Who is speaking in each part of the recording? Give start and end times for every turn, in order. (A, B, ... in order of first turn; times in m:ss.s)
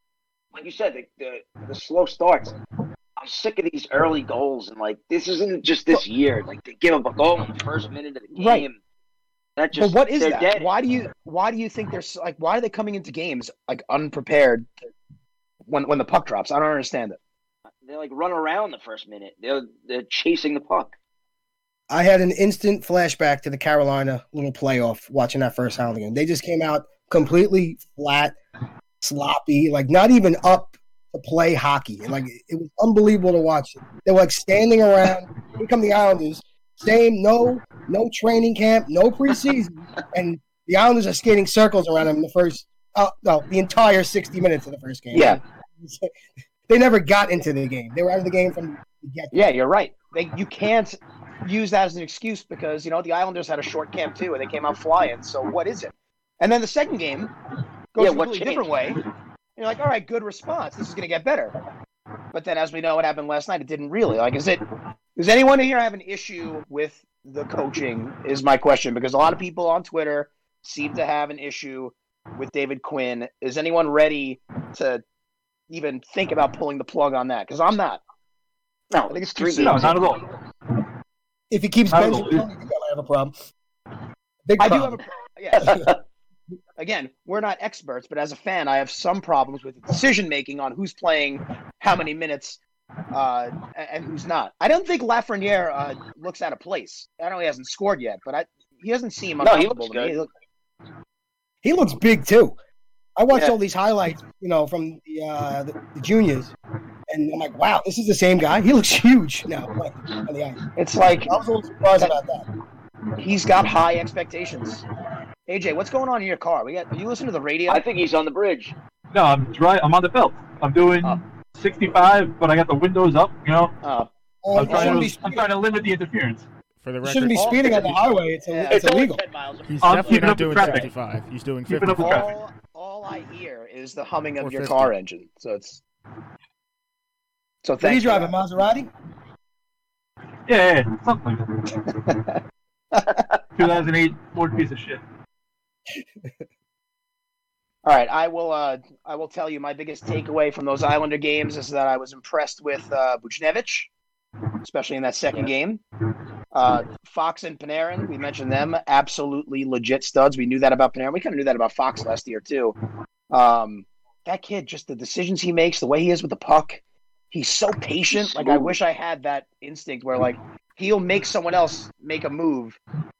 0:00.5-0:02.5 A
0:03.2-0:08.8 A
0:08.4-0:08.7 B
0:09.6-0:10.7 A
0:09.8-0:14.7 B
0:15.7-0:17.2 B
0:17.8-0:20.9 A
0:21.9-0:28.4 C
0:29.0-0:46.1 C
0:45.1-0:45.4 B
0:46.7-0:49.3 C
0:49.3-0:57.3 B
0:58.0-0:59.0 B
0:58.0-0:58.7 A
0:59.6-1:01.5 B
1:02.3-1:04.6 B
1:05.2-1:15.0 B
1:15.7-1:18.0 B
1:18.9-1:20.0 A
1:19.1-1:20.1 B
1:19.6-1:20.2 D
1:21.5-1:23.3 C
1:21.9-1:22.5 D
1:24.5-1:25.0 C
1:24.6-1:25.9 B
1:25.6-1:25.9 C
1:26.8-1:32.6 B
1:33.1-1:40.3 B
1:39.4-1:40.2 A
1:41.6-1:42.6 C
1:43.2-1:46.5 C
1:47.1-1:50.6 C
1:50.8-1:51.3 B
1:51.3-1:52.4 C
1:53.2-1:54.8 B
1:55.5-1:57.8 B
1:57.7-1:58.7 A
1:59.1-2:03.8 D
2:03.8-2:05.2 B
2:04.4-2:05.5 C
2:04.6-2:06.5 D
2:06.8-2:07.9 E
2:07.0-2:09.2 C
2:07.4-2:08.8 B
2:08.7-2:10.9 A
2:09.7-2:12.3 E
2:09.8-2:10.9 D
2:11.7-2:12.3 D
2:12.0-2:15.8 B
2:14.4-2:14.9 E
2:17.6-2:18.3 B
2:17.8-2:18.9 C
2:20.5-2:21.4 D
2:21.9-2:22.4 B
2:23.6-2:25.0 D
2:27.8-2:33.9 B
2:34.6-2:35.8 B
2:36.5-2:42.8 B
2:43.3-2:52.8 B
2:48.1-2:48.8 A